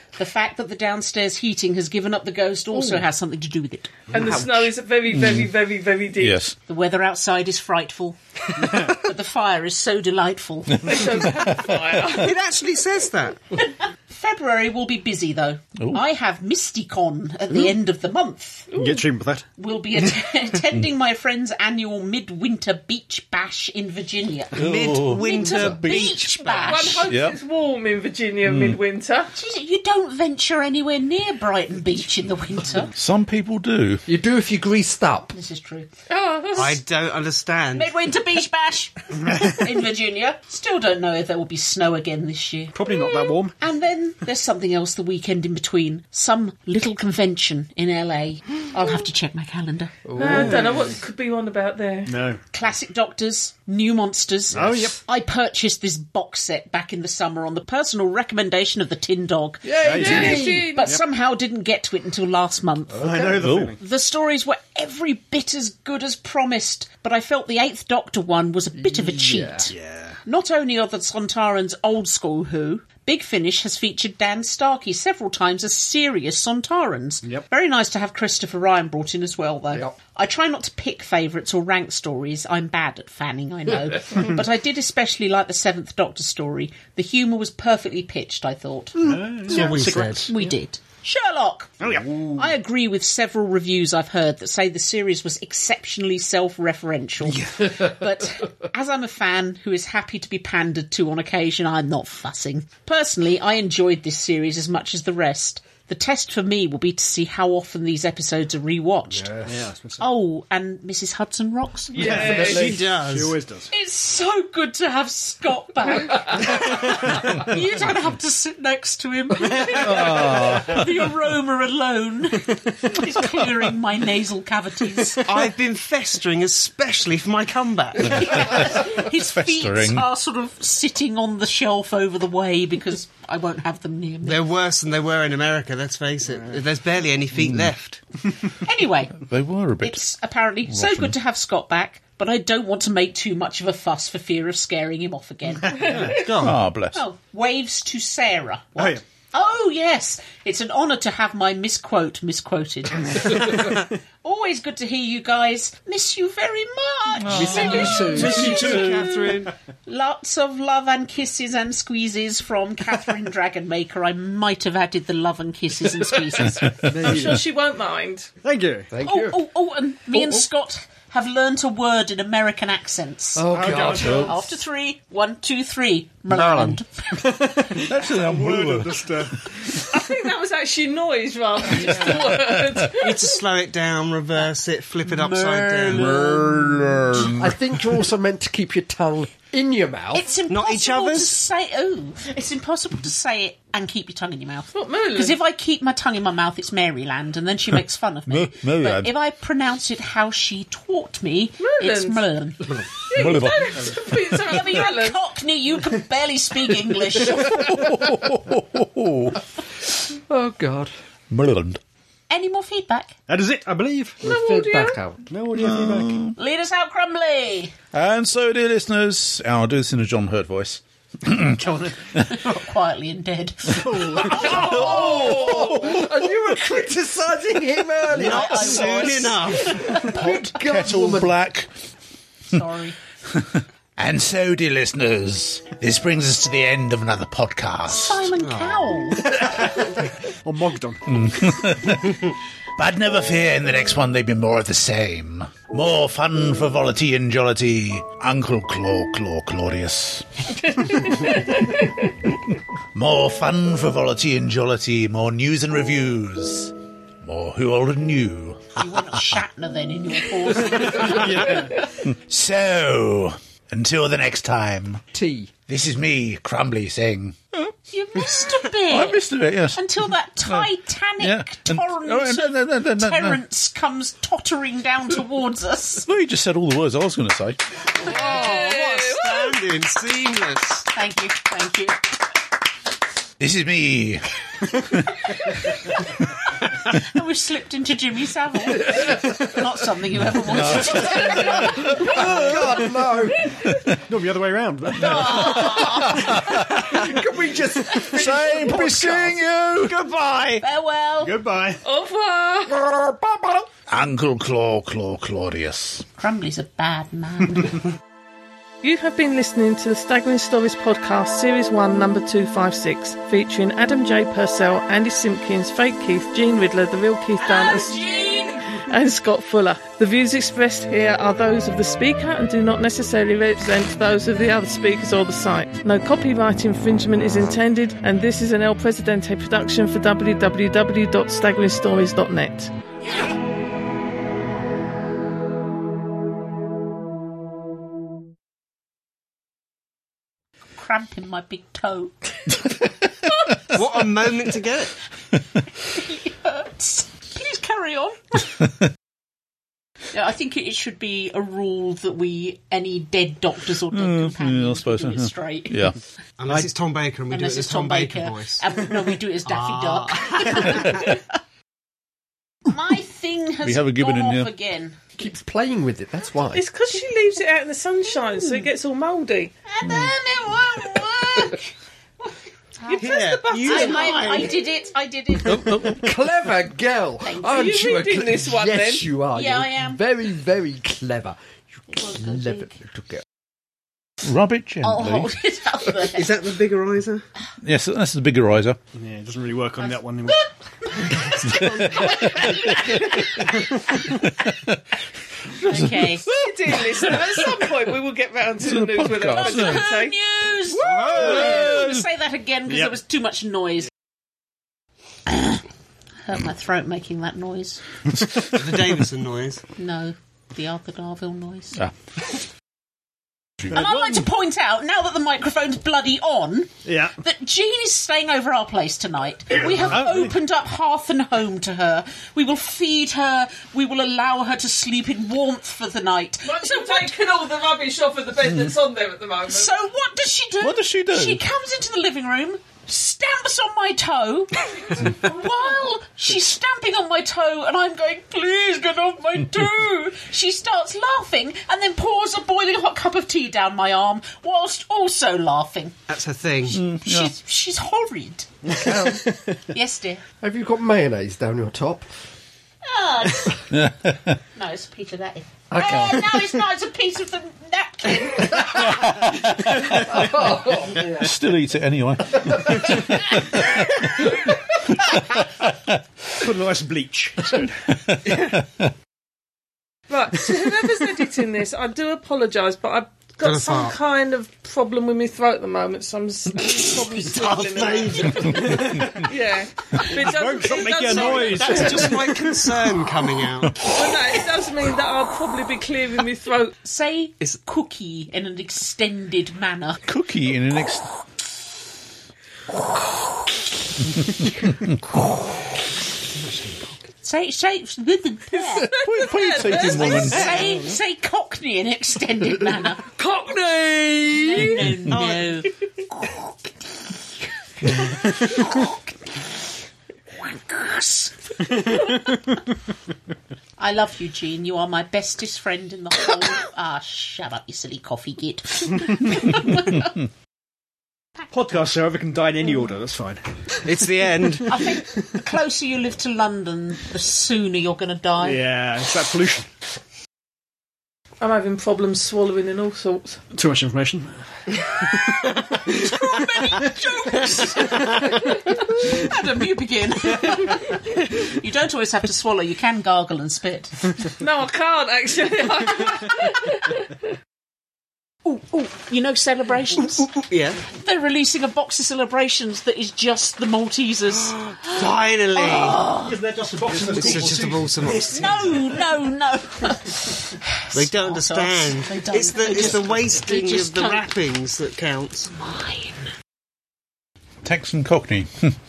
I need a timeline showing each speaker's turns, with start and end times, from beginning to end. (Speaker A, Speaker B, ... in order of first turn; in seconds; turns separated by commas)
Speaker A: 0.2-4.0, Speaker B: 4.1-6.5, Speaker C: 4.1-4.7, Speaker D: 5.1-5.5, Speaker D: 6.2-6.5, Speaker A: 6.7-8.2, Speaker E: 8.6-9.0, Speaker A: 8.8-11.0, Speaker D: 10.8-11.9, Speaker B: 10.8-12.4, Speaker F: 12.1-13.4, Speaker A: 13.5-18.7, Speaker B: 18.7-19.0, Speaker E: 18.7-19.4, Speaker A: 19.6-27.1, Speaker F: 24.6-27.0, Speaker D: 24.6-26.2, Speaker B: 26.5-29.4, Speaker D: 27.0-27.4, Speaker D: 28.4-28.8, Speaker A: 29.4-32.9, Speaker D: 33.0-34.0, Speaker C: 34.1-35.3, Speaker A: 35.3-35.9, Speaker B: 36.1-36.8, Speaker F: 36.5-37.9, Speaker A: 37.7-50.0, Speaker E: 39.2-39.8, Speaker E: 42.7-43.5, Speaker C: 50.0-50.8, Speaker B: 50.2-52.2, Speaker E: 50.2-50.9, Speaker E: 52.1-52.4, Speaker A: 52.5-109.3, Speaker E: 54.5-55.0, Speaker C: 59.6-60.7, Speaker E: 59.8-61.0, Speaker B: 59.9-60.9, Speaker E: 62.9-63.8, Speaker C: 63.0-63.3, Speaker D: 63.3-63.8, Speaker C: 68.8-69.7, Speaker E: 69.7-70.2, Speaker E: 89.0-90.5, Speaker F: 89.5-90.3, Speaker E: 91.8-92.5, Speaker E: 97.2-97.7, Speaker C: 109.1-109.5, Speaker E: 109.5-110.1, Speaker A: 110.0-112.3, Speaker B: 112.0-112.7, Speaker E: 112.0-113.7, Speaker F: 112.2-113.4, Speaker A: 113.7-125.3, Speaker E: 116.6-116.9, Speaker D: 119.7-120.8, Speaker E: 119.8-120.2, Speaker E: 122.8-123.1, Speaker F: 125.2-128.6, Speaker A: 128.1-134.4, Speaker D: 128.2-130.1, Speaker F: 134.2-138.0, Speaker A: 138.6-139.2, Speaker D: 139.2-140.0, Speaker A: 139.8-146.2, Speaker D: 140.7-141.2, Speaker E: 145.6-146.6, Speaker B: 145.9-146.2, Speaker D: 146.3-147.0, Speaker A: 146.9-159.1, Speaker E: 148.8-149.0, Speaker E: 153.2-153.8, Speaker D: 157.2-158.3, Speaker C: 157.3-158.8, Speaker F: 157.9-159.5, Speaker E: 158.2-159.3, Speaker A: 159.9-166.8, Speaker D: 166.6-166.9, Speaker E: 166.9-167.4, Speaker B: 166.9-168.3, Speaker E: 168.4-168.9, Speaker C: 168.9-169.4, Speaker A: 169.0-177.5, Speaker E: 170.2-170.4, Speaker C: 173.3-174.3, Speaker E: 173.5-174.4, Speaker D: 173.9-174.2, Speaker E: 177.1-179.9, Speaker D: 177.8-179.4, Speaker B: 179.9-183.4, Speaker D: 181.9-182.9, Speaker F: 183.0-186.3, Speaker A: 185.1-186.8, Speaker D: 185.9-187.5, Speaker C: 187.3-190.3, Speaker A: 190.1-202.8, Speaker F: 190.5-191.4, Speaker B: 194.7-195.4, Speaker D: 198.3-199.1, Speaker B: 201.6-202.3, Speaker B: 203.1-205.2, Speaker D: 203.1-204.7, Speaker A: 204.5-207.7, Speaker D: 207.2-209.4, Speaker C: 210.1-210.9, Speaker D: 211.3-211.8, Speaker A: 212.3-213.1, Speaker E: 213.3-214.2, Speaker C: 214.2-215.2, Speaker B: 214.2-215.0, Speaker E: 215.3-216.3, Speaker D: 215.6-216.3, Speaker A: 216.3-217.8, Speaker D: 217.9-221.6, Speaker E: 221.3-222.0, Speaker A: 222.2-225.8, Speaker E: 223.7-224.5, Speaker C: 224.3-229.1, Speaker D: 224.5-226.1, Speaker F: 228.1-230.1, Speaker A: 228.1-230.2, Speaker C: 229.8-231.3, Speaker D: 230.1-231.7, Speaker A: 232.5-233.0, Speaker D: 233.4-238.3, Speaker A: 237.8-239.8, Speaker F: 238.4-238.9, Speaker E: 239.2-241.2, Speaker D: 241.1-251.4, Speaker B: 250.8-252.1, Speaker D: 252.9-256.7, Speaker D: 257.2-259.1, Speaker A: 258.8-261.8, Speaker E: 260.7-261.8, Speaker D: 262.0-265.0, Speaker C: 265.1-265.5, Speaker D: 265.7-267.7, Speaker A: 267.9-276.1, Speaker D: 268.9-269.8, Speaker D: 270.4-273.4, Speaker D: 276.0-277.6, Speaker F: 278.0-280.9, Speaker B: 278.1-279.6, Speaker A: 280.9-282.1, Speaker D: 283.4-284.2, Speaker D: 284.8-285.2, Speaker A: 285.9-286.2, Speaker A: 286.8-292.2, Speaker D: 290.3-293.0, Speaker C: 291.4-293.5, Speaker E: 294.1-295.8, Speaker A: 295.0-296.8, Speaker C: 295.2-299.4, Speaker D: 295.9-296.7, Speaker D: 298.0-300.0, Speaker F: 299.8-300.6, Speaker A: 300.6-301.4, Speaker E: 301.2-301.8, Speaker B: 301.8-302.8, Speaker D: 303.0-306.1, Speaker A: 306.2-307.8, Speaker B: 308.8-332.7, Speaker A: 317.4-318.8, Speaker A: 340.8-342.4, Speaker F: 343.7-344.9, Speaker A: 345.8-348.4, Speaker A: 350.1-355.9, Speaker D: 353.9-356.0, Speaker F: 356.4-358.9, Speaker A: 357.3-361.1, Speaker F: 359.5-361.1, Speaker A: 362.7-365.0, Speaker D: 363.6-364.5, Speaker C: 365.2-366.7, Speaker B: 366.5-369.5, Speaker A: 368.1-368.7, Speaker A: 369.7-375.8, Speaker B: 372.9-374.5, Speaker F: 372.9-374.6, Speaker D: 375.4-376.1, Speaker C: 375.8-381.4, Speaker A: 377.2-377.8, Speaker B: 377.5-379.1, Speaker A: 379.3-380.0, Speaker C: 381.9-383.2, Speaker A: 382.0-382.7, Speaker D: 384.2-385.3, Speaker A: 384.8-386.4, Speaker F: 386.0-387.2, Speaker D: 387.6-388.8, Speaker E: 388.9-390.5, Speaker A: 389.8-394.1, Speaker D: 391.5-393.5, Speaker D: 394.0-394.8, Speaker D: 395.6-397.5, Speaker A: 395.6-396.3, Speaker B: 396.4-400.2, Speaker D: 398.6-399.9, Speaker A: 399.4-403.9, Speaker F: 400.8-401.6, Speaker D: 401.5-401.9, Speaker A: 405.3-405.6, Speaker A: 406.2-407.8, Speaker F: 408.5-409.6, Speaker A: 409.8-411.8, Speaker A: 413.7-427.2, Speaker E: 413.7-414.2, Speaker E: 416.9-417.1, Speaker E: 419.7-420.3, Speaker B: 426.4-429.7, Speaker A: 429.5-445.9, Speaker D: 430.6-431.4, Speaker F: 446.1-446.8, Speaker D: 446.7-447.3, Speaker A: 446.9-450.2, Speaker E: 448.7-449.6, Speaker C: 450.4-452.1, Speaker A: 452.8-453.7, Speaker D: 453.7-454.4, Speaker A: 454.6-459.0, Speaker C: 455.7-456.3, Speaker D: 458.6-466.0, Speaker C: 459.9-461.3, Speaker E: 466.4-467.7, Speaker D: 468.1-468.9, Speaker B: 470.1-482.2, Speaker F: 473.4-473.9, Speaker F: 476.6-478.6, Speaker E: 478.4-479.3, Speaker E: 480.1-482.3, Speaker F: 481.1-483.9, Speaker B: 483.8-486.8, Speaker A: 486.8-490.0, Speaker D: 490.1-491.1, Speaker D: 494.1-494.9, Speaker F: 496.3-496.9, Speaker A: 497.2-499.0, Speaker B: 498.7-500.4, Speaker D: 498.8-500.8, Speaker A: 499.7-503.0, Speaker F: 499.8-500.8, Speaker B: 503.1-505.0, Speaker A: 504.4-505.7, Speaker F: 505.1-505.6, Speaker A: 508.4-509.1, Speaker A: 510.4-511.3, Speaker E: 511.8-512.3, Speaker A: 513.8-520.1, Speaker E: 521.5-523.4, Speaker F: 523.9-524.8, Speaker A: 524.7-528.6, Speaker E: 528.4-529.7, Speaker B: 531.4-533.4, Speaker E: 533.5-536.1, Speaker A: 535.8-544.1, Speaker B: 544.4-547.1, Speaker A: 548.4-550.3, Speaker F: 550.4-550.8, Speaker A: 550.9-555.0, Speaker F: 554.4-556.1, Speaker A: 555.5-556.4, Speaker E: 556.2-559.1, Speaker F: 557.1-558.5, Speaker A: 558.1-564.3, Speaker F: 560.9-565.5, Speaker D: 567.6-568.8